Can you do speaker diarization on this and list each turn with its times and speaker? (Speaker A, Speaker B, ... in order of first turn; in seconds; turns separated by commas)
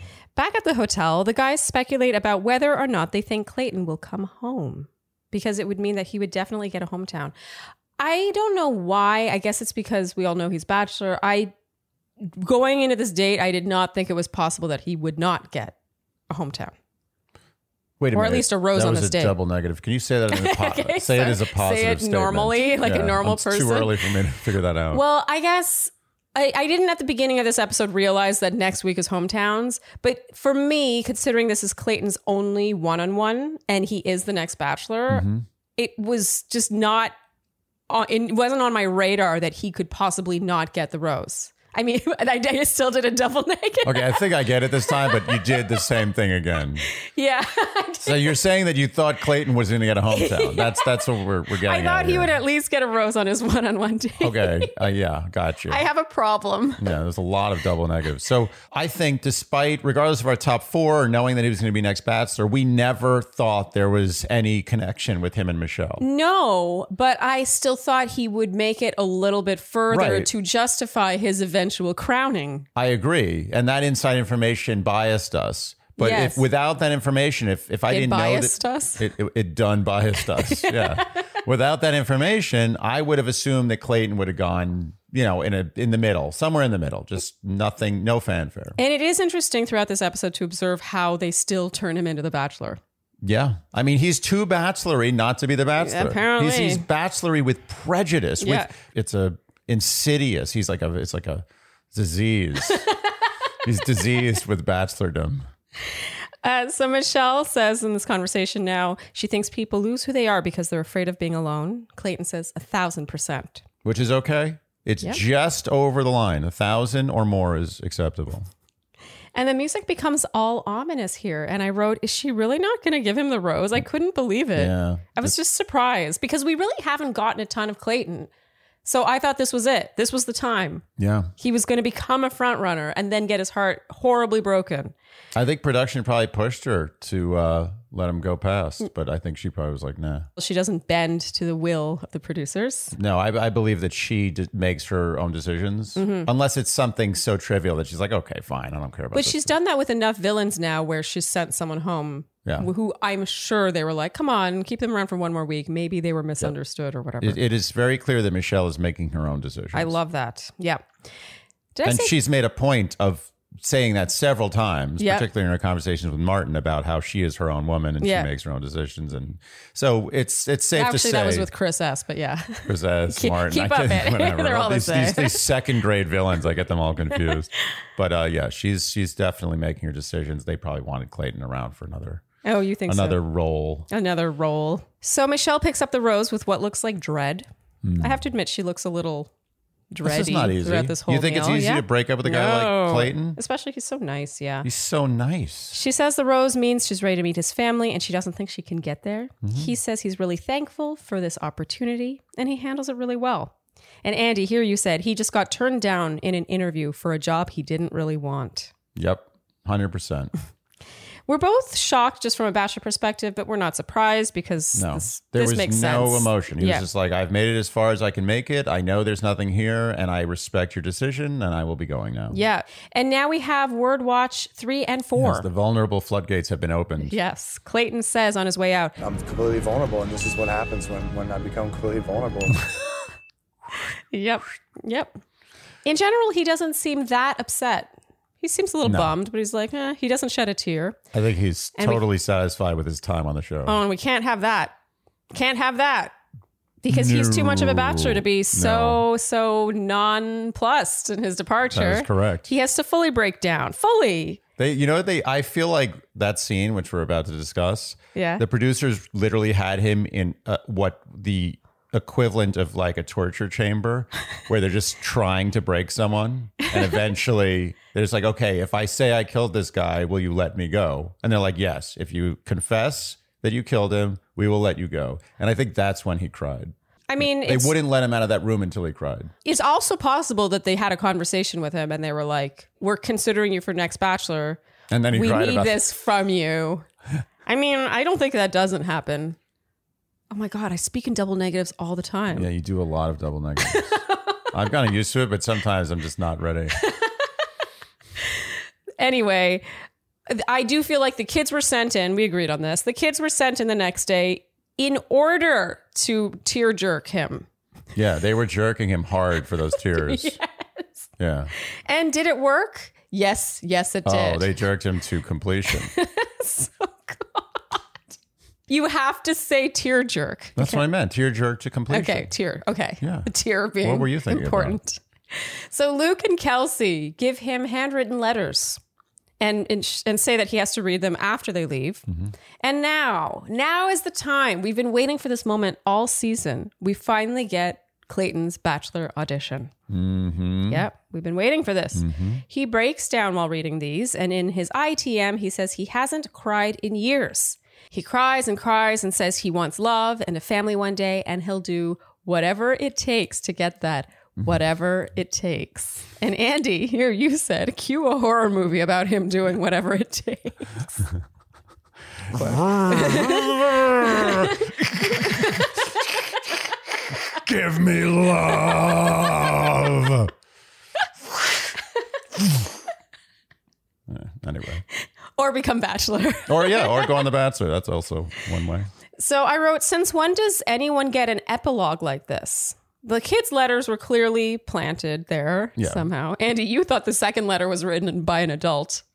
Speaker A: 0.3-7.3, Speaker A: 8.0-11.5, Speaker A: 12.2-15.7, Speaker A: 16.3-16.7, Speaker B: 18.0-25.0, Speaker A: 18.1-19.4, Speaker A: 20.3-24.0, Speaker A: 24.9-37.1, Speaker B: 35.1-35.4, Speaker A: 37.9-44.3, Speaker B: 43.8-46.9, Speaker A: 44.8-45.8, Speaker A: 46.9-48.4, Speaker B: 48.0-52.3, Speaker A: 50.1-54.7, Speaker B: 54.2-55.8, Speaker A: 55.7-56.9, Speaker B: 56.8-66.0, Speaker A: 66.0-72.7, Speaker B: 69.9-70.3, Speaker B: 72.7-88.8, Speaker A: 76.0-76.4, Speaker A: 77.9-79.0, Speaker A: 80.4-81.1, Speaker A: 88.8-92.8, Speaker B: 93.2-102.8, Speaker A: 95.8-96.8, Speaker A: 98.4-98.7, Speaker A: 102.7-103.0, Speaker B: 103.6-105.5, Speaker A: 106.4-113.6, Speaker B: 113.8-118.5, Speaker A: 119.3-128.3, Speaker B: 124.5-125.3, Speaker A: 128.8-130.8, Speaker B: 131.0-131.3, Speaker A: 131.4-134.9, Speaker B: 135.3-140.3, Speaker A: 140.4-142.9, Speaker B: 142.9-149.5, Speaker A: 145.9-146.3, Speaker A: 149.1-157.4, Speaker B: 157.2-159.9, Speaker A: 159.7-160.8, Speaker A: 161.7-162.1, Speaker B: 161.8-171.5, Speaker A: 165.0-165.3, Speaker A: 168.0-168.3, Speaker A: 170.8-175.5, Speaker B: 172.7-182.2, Speaker A: 182.4-183.2, Speaker B: 182.9-183.9, Speaker A: 183.9-187.5, Speaker B: 187.8-188.2, Speaker A: 188.0-189.3, Speaker A: 189.9-194.7, Speaker B: 190.0-193.4, Speaker B: 194.6-195.8, Speaker A: 195.7-203.5, Speaker B: 199.4-199.7, Speaker A: 204.0-208.7, Speaker B: 208.9-210.3, Speaker A: 211.3-216.8, Speaker B: 214.7-222.4, Speaker A: 222.3-225.5, Speaker B: 225.2-227.2, Speaker A: 227.0-228.9, Speaker C: 229.0-232.5, Speaker A: 234.1-235.2, Speaker A: 235.8-241.0, Speaker B: 238.8-239.1, Speaker B: 241.1-243.8, Speaker A: 241.8-242.0, Speaker A: 243.7-244.7, Speaker A: 245.3-246.1, Speaker A: 246.8-254.4, Speaker B: 246.9-249.0, Speaker B: 251.7-252.5, Speaker B: 254.6-279.3, Speaker A: 258.1-258.4, Speaker A: 277.1-277.7, Speaker A: 279.4-284.6, Speaker B: 284.9-285.8, Speaker A: 285.1-286.9, Speaker A: 287.4-289.4, Speaker A: 290.3-292.5, Speaker B: 292.3-293.9, Speaker A: 293.7-294.2, Speaker B: 294.5-296.8, Speaker A: 296.8-297.1, Speaker A: 299.0-299.6, Speaker A: 300.3-307.5, Speaker B: 307.9-310.3, Speaker A: 309.9-314.5, Speaker B: 311.2-311.5, Speaker B: 314.0-315.9, Speaker A: 315.7-317.8, Speaker A: 318.7-320.8, Speaker B: 320.6-322.3, Speaker A: 321.9-328.8, Speaker B: 323.0-323.3, Speaker B: 323.8-324.8, Speaker A: 329.4-332.1, Speaker B: 332.1-332.3, Speaker A: 332.6-339.7, Speaker B: 339.9-340.8, Speaker A: 340.7-361.1, Speaker B: 341.9-342.4, Speaker B: 362.3-365.6, Speaker A: 362.4-365.6, Speaker B: 367.3-370.3, Speaker B: 374.1-374.8, Speaker A: 375.4-377.2, Speaker B: 376.5-378.9, Speaker A: 379.2-389.0, Speaker B: 385.8-386.1